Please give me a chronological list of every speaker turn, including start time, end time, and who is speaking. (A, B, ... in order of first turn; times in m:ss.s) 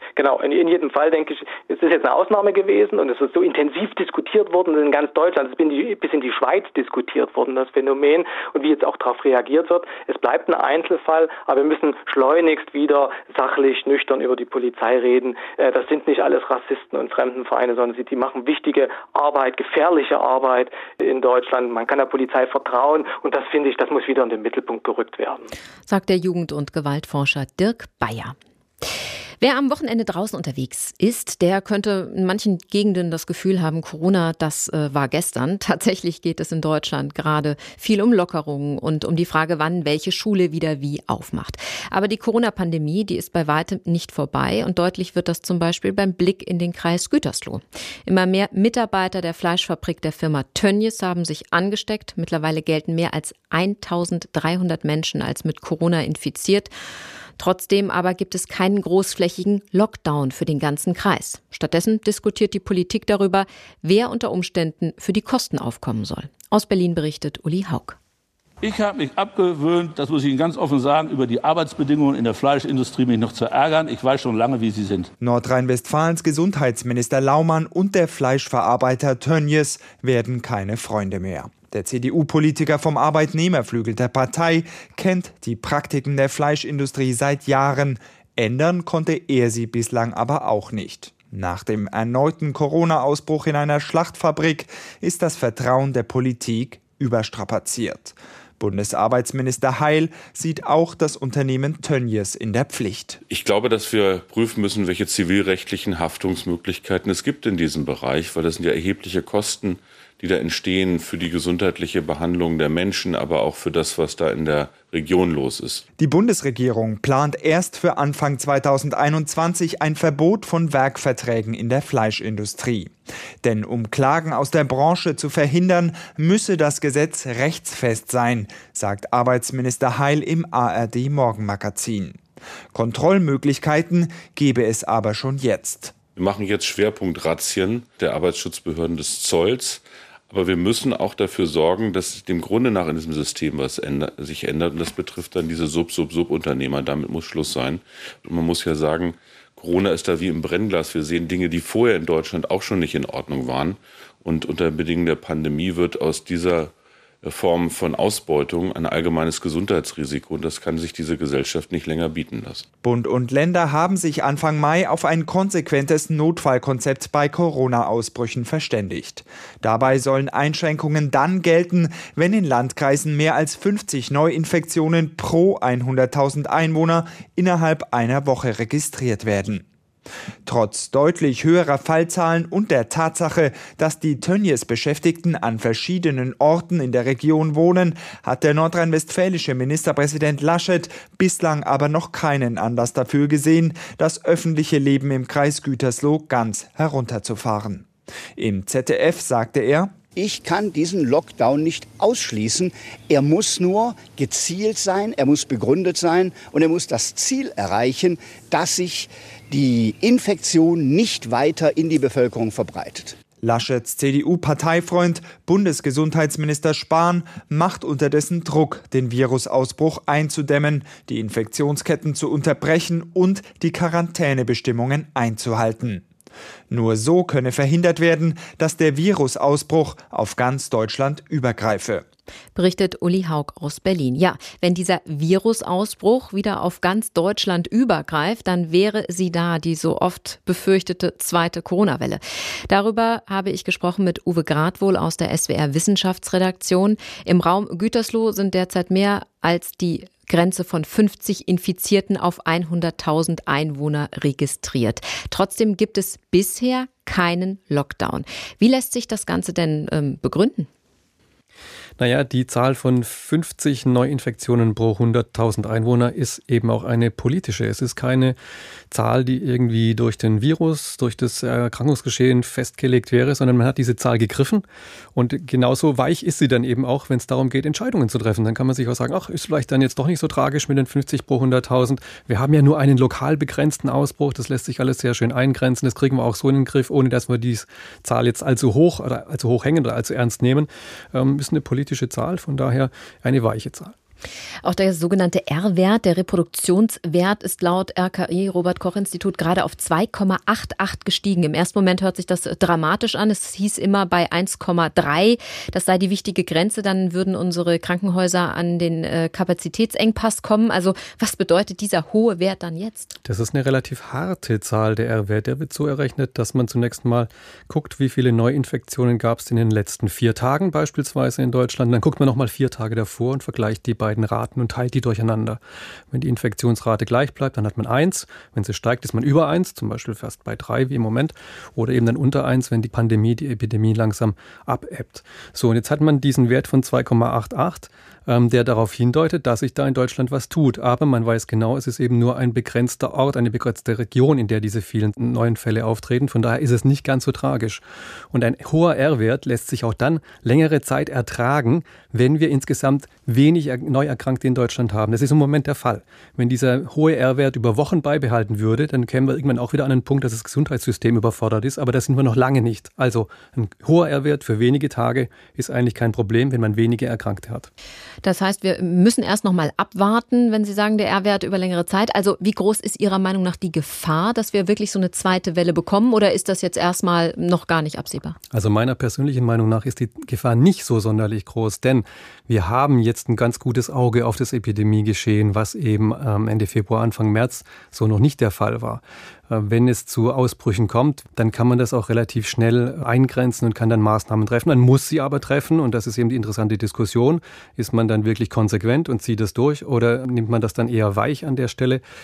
0:00.2-0:25.5 A
0:25.9-0:28.8 B
0:29.4-0:56.7 B
0:57.4-1:08.0 B
1:08.6-1:15.1 C
1:15.2-1:43.2 D
1:43.3-1:55.8 E
1:56.0-2:12.2 D
2:12.7-2:16.0 D
2:16.1-2:42.6 E
2:42.8-2:59.6 D
3:00.4-3:20.0 D
3:20.2-3:33.2 F
3:33.4-3:46.0 D
3:46.7-3:52.0 D
3:52.5-4:20.7 B
4:22.0-4:28.4 G
4:28.9-4:34.6 G
4:35.1-4:53.9 G
4:54.6-5:13.1 B
5:13.2-5:25.6 G
5:26.1-6:07.7 G
6:08.2-6:18.4 B
6:18.5-6:42.0 G